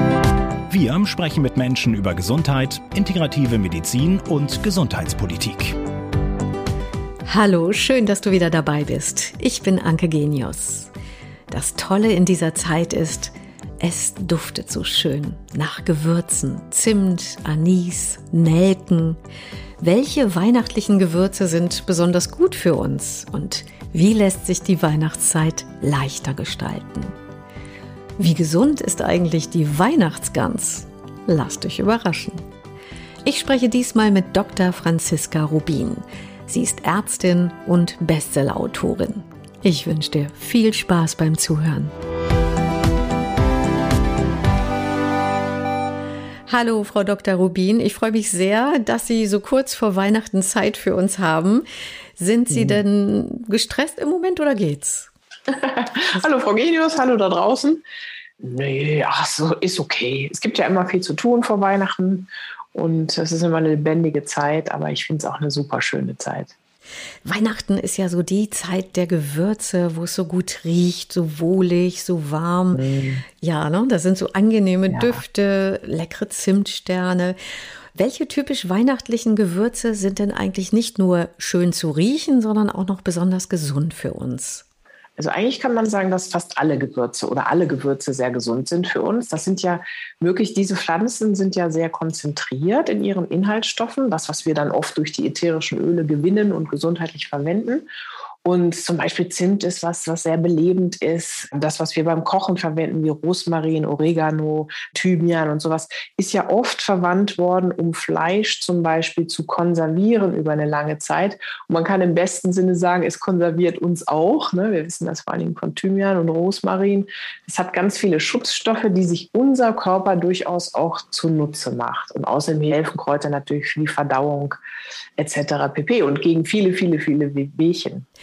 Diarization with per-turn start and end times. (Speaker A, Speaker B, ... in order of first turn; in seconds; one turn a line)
Speaker A: 0.7-5.8
Speaker B: 7.3-10.9
Speaker B: 11.5-19.2
Speaker B: 19.8-27.1
Speaker B: 28.2-32.4
Speaker B: 33.2-41.9
Speaker B: 46.5-51.6
Speaker B: 52.2-55.1
Speaker C: 52.5-52.8
Speaker C: 55.5-57.8
Speaker C: 58.4-66.5
Speaker B: 67.2-72.8
Speaker C: 72.7-73.2
Speaker B: 73.4-77.3
Speaker C: 74.9-75.2
Speaker B: 77.9-84.6
Speaker C: 85.2-97.9
Speaker C: 98.4-124.6
Speaker C: 125.2-128.1